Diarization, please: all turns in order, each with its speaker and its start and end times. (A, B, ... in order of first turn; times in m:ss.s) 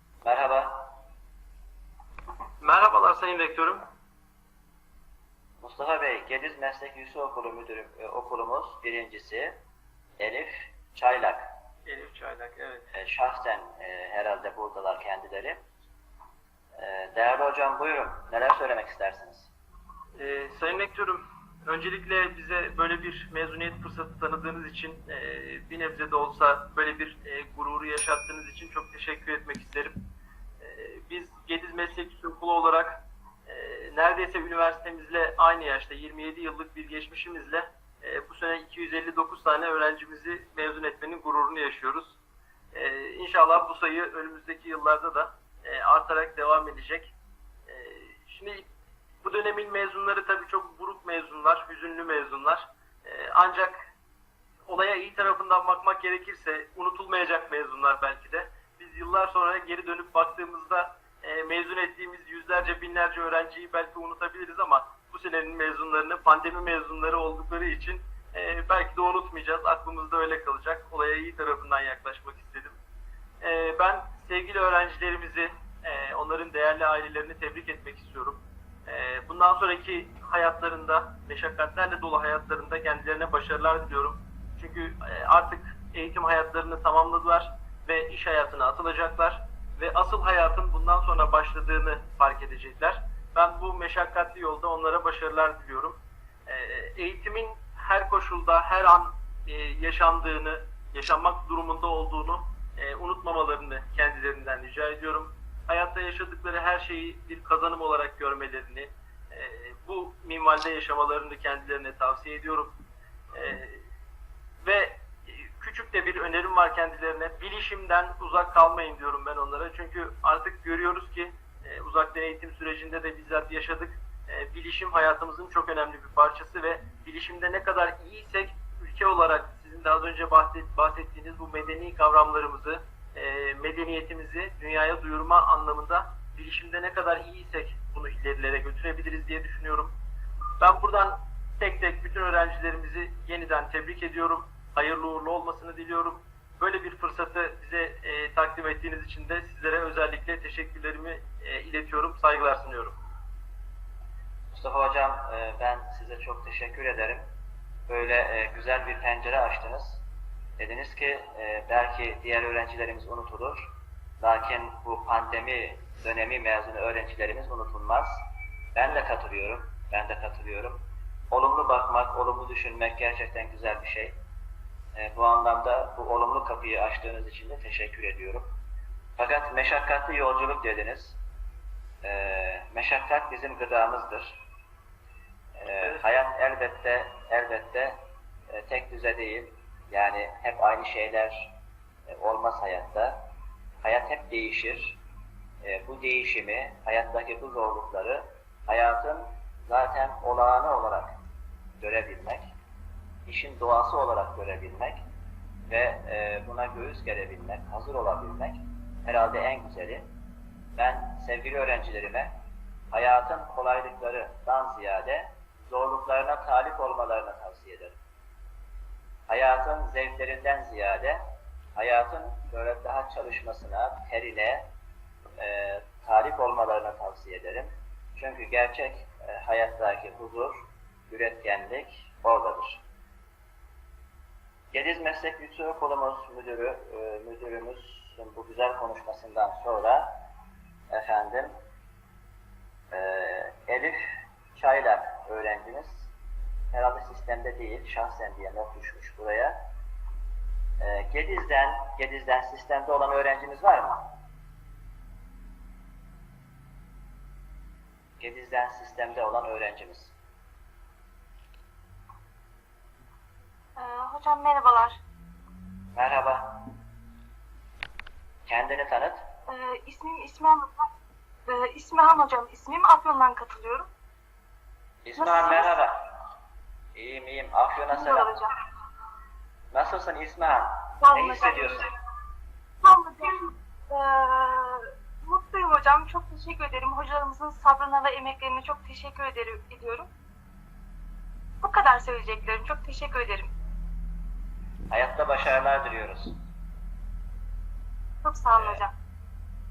0:00.2-0:00.9 A
0:02.6-0:03.8 B
0:05.6-0:09.6 A
0:10.2-0:11.5 A
0:11.8-0:12.9 B
0:12.9-0:15.6 A
0:16.8-0:19.5 A
0:20.2-0:30.0 B
0:30.6-0:42.2 B
0:42.7-0:47.1 B
0:47.7-0:48.7 B
0:49.2-0:53.9 B
0:54.7-1:12.8 B
1:13.4-1:52.8 B
1:53.3-1:53.8 B
1:54.6-2:19.9 B
2:20.6-2:33.0 B
2:34.5-2:37.2 A
2:37.9-2:40.0 A
2:40.6-2:43.6 A
2:44.2-2:54.2 A
2:54.9-2:58.5 A
2:59.2-3:01.2 A
3:02.0-3:04.4 A
3:05.6-3:08.0 A
3:08.5-3:11.5 A
3:12.1-3:13.2 A
3:13.8-3:15.0 A
3:15.6-3:21.1 A
3:21.8-3:22.5 A
3:23.2-3:25.0 A
3:25.7-3:30.0 A
3:30.8-3:32.3 A
3:32.9-3:38.0 A
3:39.3-3:41.2 A
3:41.8-3:44.7 A
3:45.4-3:52.8 A
3:54.7-4:00.2 A
4:00.9-4:01.5 A
4:02.9-4:04.0 A
4:04.5-4:06.1 A
4:06.7-4:09.6 A
4:10.8-4:14.1 A
4:18.2-4:20.1 A
4:23.8-4:25.0 C
4:25.9-4:26.7 A
4:28.5-4:29.2 A
4:29.5-4:30.7 C
4:31.5-4:33.9 C
4:35.0-4:36.2 A
4:35.2-4:35.8 C
4:36.9-4:38.4 A
4:37.9-4:38.5 C
4:39.7-4:41.9 A
4:41.0-4:41.9 C
4:42.8-4:50.1 C
4:51.6-4:53.5 C
4:54.9-4:56.4 A
4:58.2-4:58.9 C
4:58.5-4:58.8 A